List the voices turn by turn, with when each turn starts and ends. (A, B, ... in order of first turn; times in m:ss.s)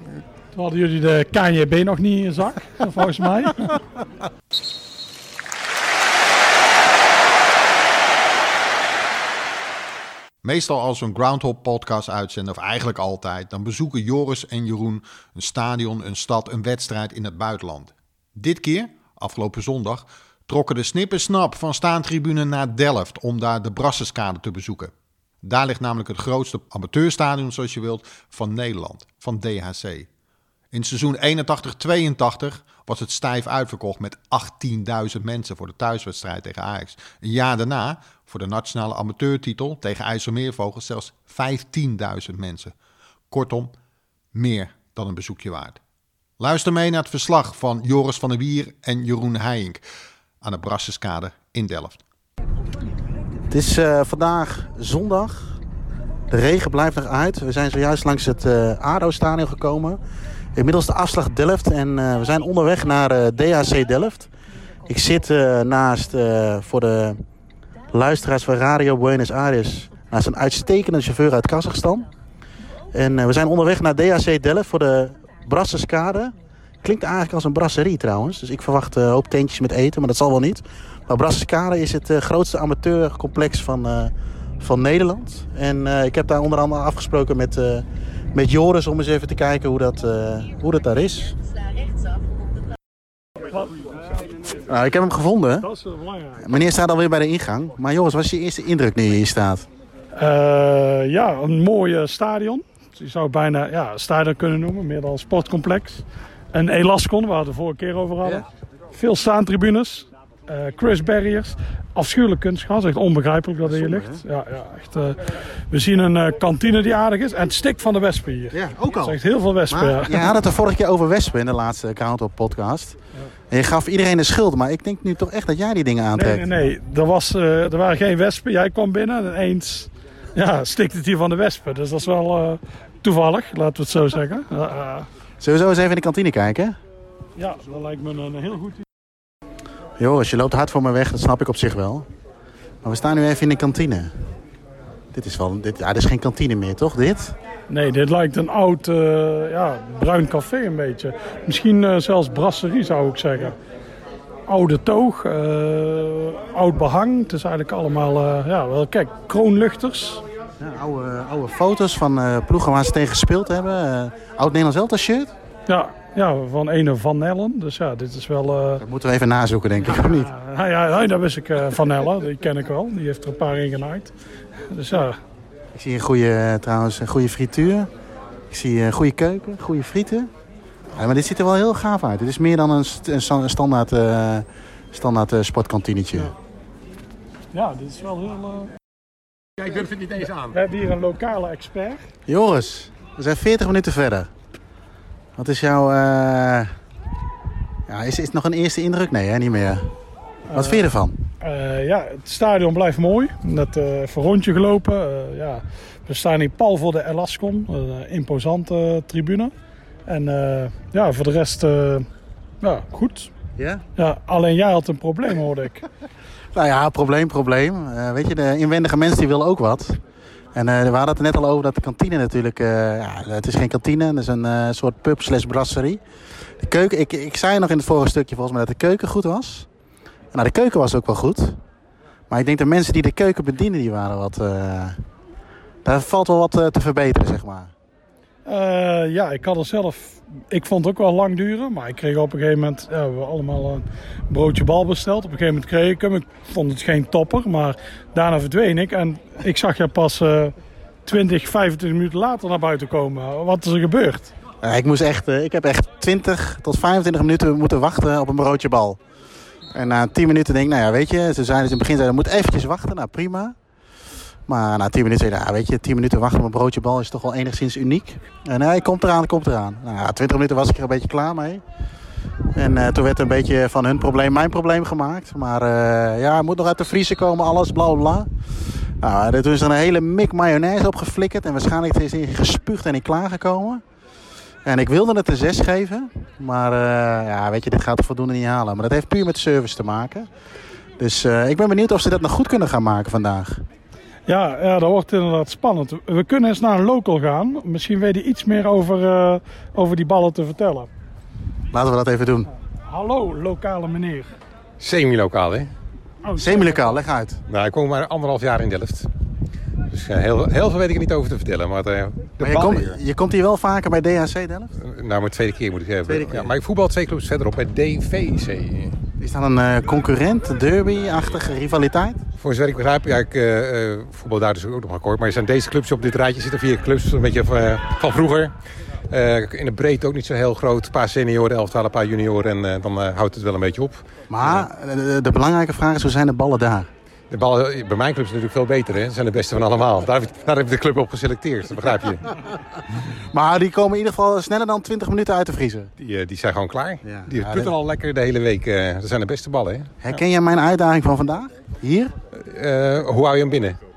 0:00.5-0:03.8 A
0:10.4-0:24.9 B
0:25.4-0:30.1 B
0:30.7-0:42.7 B
0:43.3-0:43.7 B
0:44.3-0:45.8 B
0:46.4-0:49.8 B
0:50.4-0:52.0 B
0:53.5-0:55.6 C
0:56.3-1:00.0 C
1:00.5-1:04.3 C
1:04.9-1:07.2 C
1:07.9-1:12.1 C
1:12.9-1:31.4 C
1:34.7-1:35.7 C
1:35.6-1:36.4 A
1:36.4-1:39.7 C
1:40.2-2:00.3 A
1:53.7-1:54.2 C
1:58.5-1:59.2 C
1:59.7-2:03.0 C
2:03.5-2:06.4 C
2:06.1-2:15.1 A
2:15.4-2:16.8 C
2:17.4-2:18.8 A
2:20.0-2:22.1 C
2:22.8-2:24.1 C
2:25.1-2:27.4 C
2:27.7-2:33.6 A
2:34.5-2:40.2 A
2:40.6-2:45.3 C
2:45.7-2:48.8 A
2:48.8-2:50.3 C
2:49.8-2:54.1 A
2:54.7-2:55.2 A
2:55.7-2:57.9 C
2:58.5-3:00.3 C
3:00.9-3:06.3 C
3:07.5-3:08.7 A
3:09.6-3:10.5 D
3:10.4-3:12.1 A
3:12.3-3:14.3 C
3:15.4-3:16.7 C
3:17.9-3:19.9 C
3:20.5-3:20.9 A
3:20.5-3:21.2 C
3:21.4-3:29.5 A
3:30.1-3:32.1 A
3:32.6-3:33.3 A
3:33.6-3:33.8 C
3:34.0-3:35.8 A
3:36.5-3:40.0 C
3:40.5-3:46.0 C
3:46.6-3:49.7 C
3:50.3-3:51.6 C
3:52.3-3:55.0 C
3:55.8-3:57.7 C
3:58.4-4:14.3 A
4:14.6-4:19.0 C
4:19.7-4:23.6 C
4:24.5-4:31.6 C
4:32.6-4:38.3 C
4:39.0-4:43.8 C
4:44.6-4:50.3 C
4:51.0-4:53.6 C
4:54.3-5:00.9 A
5:01.7-5:02.5 C
5:02.9-5:04.3 A
5:04.8-5:05.7 D
5:06.2-5:07.0 A
5:06.4-5:07.4 C
5:07.5-5:09.1 D
5:09.9-5:13.0 D
5:12.4-5:14.8 C
5:14.8-5:19.0 D
5:16.1-5:16.5 C
5:19.2-5:22.2 C
5:22.4-5:28.5 D
5:29.1-5:34.7 D
5:34.3-5:36.9 C
5:37.3-5:42.4 D
5:43.3-5:45.9 C
5:46.0-5:50.0 D
5:47.0-5:47.7 C
5:50.0-5:52.1 C
5:52.3-5:53.8 D